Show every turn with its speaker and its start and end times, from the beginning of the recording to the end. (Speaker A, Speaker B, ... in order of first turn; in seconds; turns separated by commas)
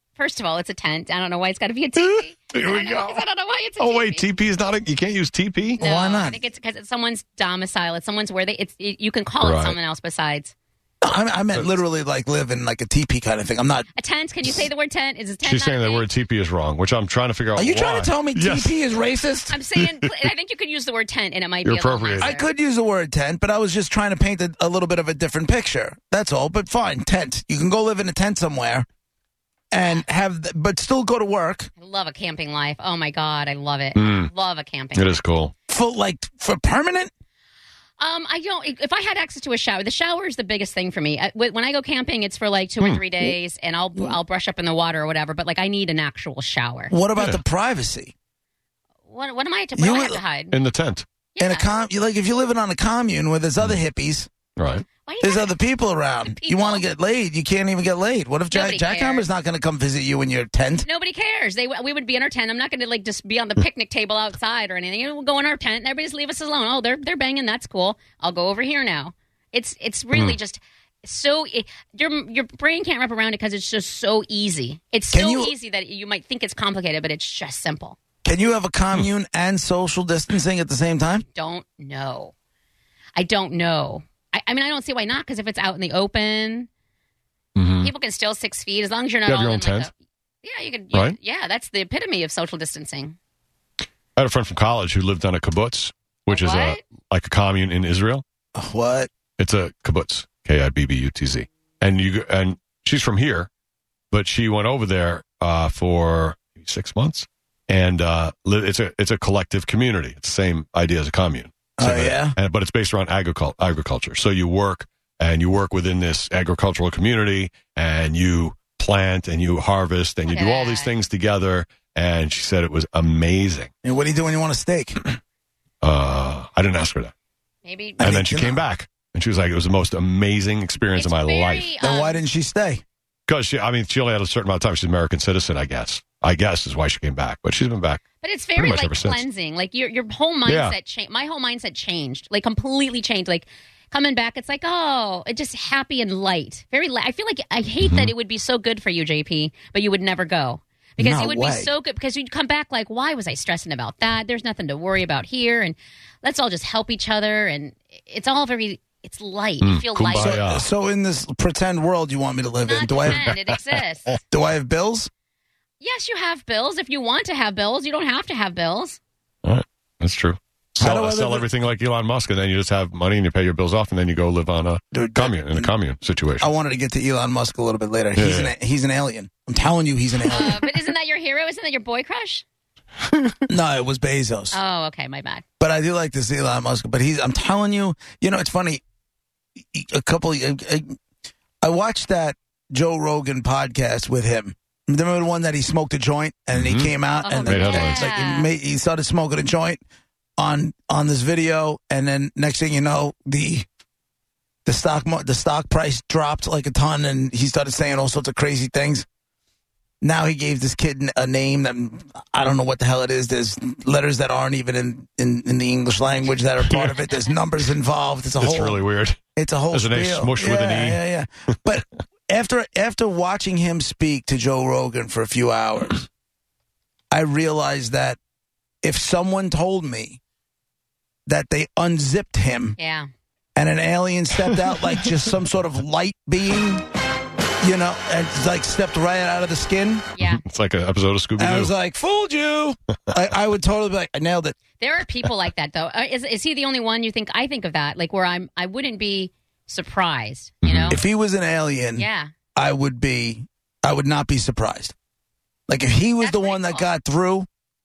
Speaker A: 0.1-4.3, Speaker B: 2.0-3.2, Speaker B: 3.8-5.8, Speaker A: 5.8-10.5, Speaker C: 5.8-6.4, Speaker B: 9.4-9.8, Speaker C: 11.0-13.9, Speaker A: 14.0-16.1, Speaker B: 15.4-18.8, Speaker C: 17.5-19.6, Speaker A: 19.5-22.5, Speaker B: 19.8-20.1, Speaker B: 21.6-22.4, Speaker C: 22.2-28.9, Speaker C: 29.7-31.7, Speaker A: 31.8-35.2, Speaker B: 34.0-34.3, Speaker B: 34.9-35.5, Speaker C: 35.7-37.1, Speaker A: 38.0-46.9, Speaker C: 46.9-48.1, Speaker B: 47.1-47.4, Speaker A: 49.1-50.6, Speaker C: 49.8-50.2, Speaker B: 50.5-51.0, Speaker A: 51.3-51.7, Speaker C: 51.4-54.3, Speaker B: 54.6-54.8, Speaker A: 55.0-55.5, Speaker C: 55.2-60.9, Speaker A: 56.2-56.8, Speaker A: 58.5-59.3, Speaker A: 60.8-78.0, Speaker C: 75.1-75.5, Speaker C: 78.2-81.2, Speaker A: 81.3-82.3, Speaker A: 83.2-86.7, Speaker B: 87.5-87.9, Speaker A: 87.8-89.9, Speaker B: 89.2-89.9, Speaker A: 90.4-93.2, Speaker B: 94.2-98.2, Speaker A: 96.3-96.8, Speaker C: 98.5-99.1, Speaker B: 99.4-103.5, Speaker B: 104.1-123.7, Speaker C: 111.8-112.3, Speaker A: 120.3-120.9, Speaker C: 123.8-125.1, Speaker B: 125.8-127.1, Speaker A: 127.6-128.1, Speaker C: 128.0-128.6, Speaker B: 128.0-131.7, Speaker A: 130.9-132.2, Speaker C: 131.8-132.8, Speaker B: 133.3-138.0, Speaker A: 138.2-160.4, Speaker B: 138.6-139.2, Speaker B: 140.4-140.8, Speaker B: 147.8-148.1, Speaker C: 151.0-151.7, Speaker B: 159.6-160.7, Speaker C: 160.1-163.2, Speaker A: 162.6-164.1, Speaker B: 163.1-163.8, Speaker C: 164.3-165.1, Speaker A: 165.8-169.0, Speaker B: 169.4-176.5, Speaker C: 170.8-171.4, Speaker C: 174.9-175.7, Speaker C: 176.4-180.7, Speaker B: 178.2-178.5, Speaker A: 180.3-182.4, Speaker C: 183.5-184.6, Speaker A: 184.5-185.4, Speaker C: 185.6-188.8, Speaker C: 189.6-190.9, Speaker C: 191.6-199.8, Speaker B: 196.5-196.9, Speaker A: 197.2-198.5, Speaker B: 197.4-198.1, Speaker C: 200.4-203.7, Speaker C: 204.6-209.1, Speaker C: 210.0-218.8, Speaker B: 216.6-216.9, Speaker B: 218.4-219.2, Speaker C: 219.3-226.1, Speaker B: 219.7-221.0, Speaker C: 227.1-228.2, Speaker C: 228.8-230.2, Speaker C: 231.2-232.8, Speaker A: 232.8-233.1, Speaker C: 233.6-236.8, Speaker C: 237.6-240.0, Speaker A: 240.2-240.4, Speaker B: 240.2-241.7, Speaker C: 241.4-244.5, Speaker A: 244.8-251.0, Speaker B: 250.6-251.0, Speaker C: 250.9-254.9, Speaker A: 251.9-252.3, Speaker C: 255.7-257.5, Speaker A: 256.2-256.9